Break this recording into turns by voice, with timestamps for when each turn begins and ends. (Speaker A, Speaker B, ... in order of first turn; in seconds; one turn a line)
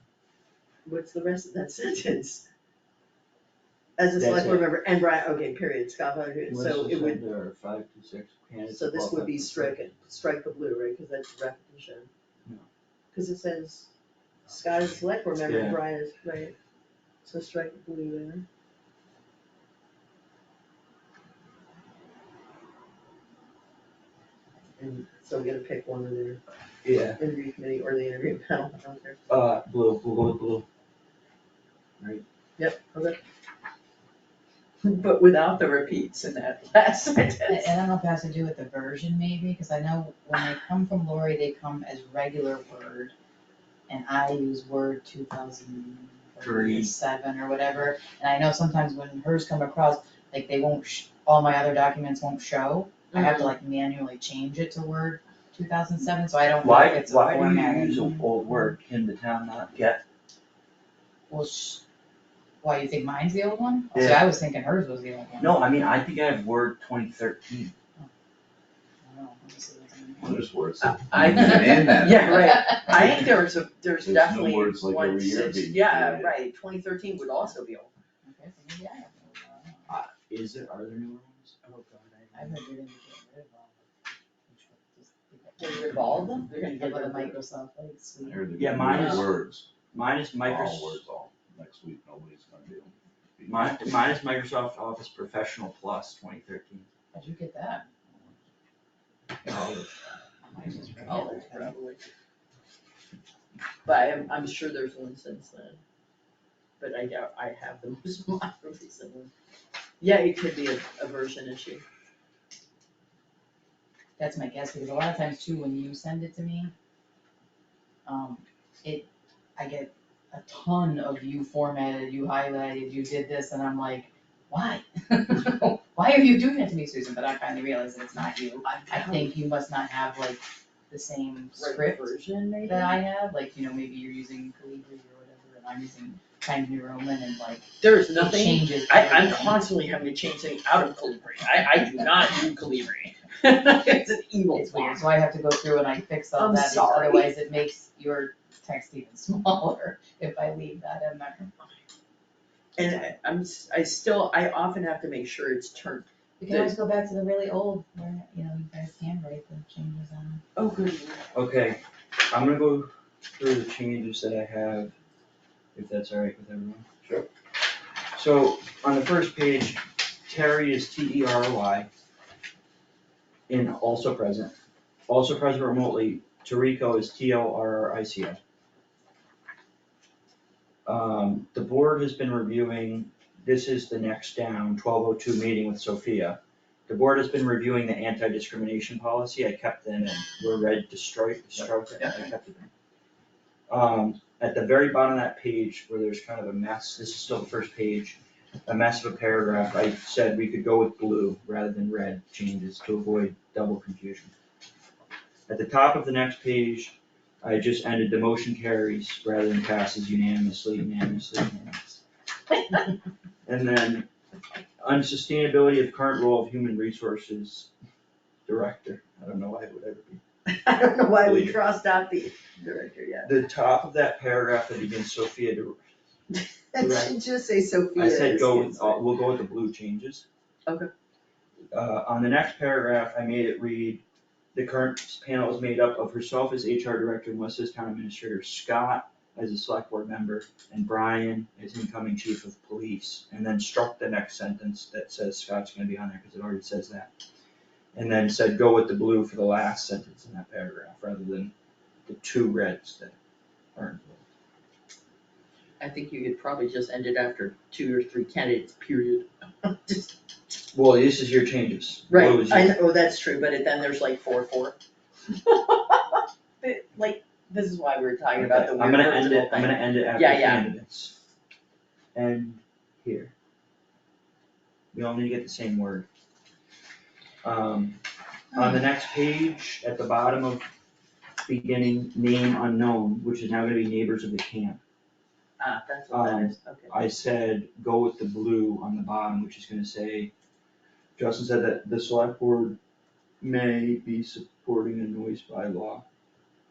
Speaker A: 0.8-2.4
Speaker A: 4.0-7.2
Speaker B: 4.2-4.7
Speaker B: 6.5-9.8
Speaker A: 8.7-12.1
Speaker A: 13.1-13.9
Speaker A: 14.5-16.5
Speaker B: 15.4-15.8
Speaker A: 17.2-18.4
Speaker A: 24.8-26.4
Speaker B: 26.8-27.2
Speaker A: 27.2-29.2
Speaker B: 29.3-30.6
Speaker A: 32.6-33.2
Speaker A: 34.8-37.7
Speaker C: 37.5-43.1
Speaker C: 43.9-58.7
Speaker B: 46.4-46.9
Speaker A: 53.1-53.5
Speaker B: 56.6-60.0
Speaker C: 61.3-61.8
Speaker C: 62.6-65.6
Speaker B: 63.9-64.2
Speaker B: 65.4-67.7
Speaker C: 69.0-70.4
Speaker D: 70.2-72.5
Speaker A: 70.8-77.9
Speaker D: 74.0-76.3
Speaker C: 78.2-79.9
Speaker B: 79.9-81.6
Speaker A: 81.7-82.3
Speaker C: 82.3-83.9
Speaker C: 84.5-88.5
Speaker A: 85.6-87.4
Speaker D: 88.2-89.7
Speaker B: 88.6-89.4
Speaker B: 89.9-91.0
Speaker D: 90.4-93.8
Speaker B: 93.5-96.9
Speaker C: 97.1-97.9
Speaker B: 99.4-99.9
Speaker C: 100.5-101.7
Speaker A: 101.0-102.0
Speaker A: 103.8-105.8
Speaker A: 106.8-109.3
Speaker A: 110.0-111.8
Speaker C: 114.2-116.7
Speaker C: 118.0-132.1
Speaker A: 128.6-129.3
Speaker A: 131.6-133.0
Speaker C: 132.6-139.6
Speaker A: 137.8-145.0
Speaker C: 144.5-151.5
Speaker A: 146.4-147.3
Speaker A: 152.8-156.7
Speaker C: 156.4-160.4
Speaker A: 160.6-161.2
Speaker B: 161.3-164.9
Speaker B: 165.7-166.8
Speaker B: 168.1-171.9
Speaker B: 173.5-174.5
Speaker B: 175.1-178.4
Speaker B: 180.8-192.7
Speaker B: 193.7-204.3
Speaker B: 205.5-212.0
Speaker B: 213.4-214.1
Speaker B: 214.8-217.7
Speaker B: 218.5-220.2
Speaker A: 220.5-223.3
Speaker B: 221.2-221.5
Speaker B: 223.2-225.8
Speaker A: 226.7-229.0
Speaker B: 226.8-227.1
Speaker B: 227.9-230.2
Speaker B: 231.7-234.0
Speaker B: 234.5-247.1
Speaker B: 247.9-251.5
Speaker B: 252.1-253.1
Speaker B: 253.8-254.2
Speaker A: 255.8-260.1
Speaker B: 260.7-262.8
Speaker A: 262.1-264.8
Speaker A: 265.4-270.7
Speaker B: 268.4-271.1
Speaker B: 272.1-273.3
Speaker B: 274.9-276.1
Speaker B: 277.4-278.0
Speaker B: 278.5-280.7
Speaker B: 281.4-284.8
Speaker A: 285.6-286.9
Speaker B: 286.1-290.3
Speaker B: 291.2-292.8
Speaker B: 293.4-296.0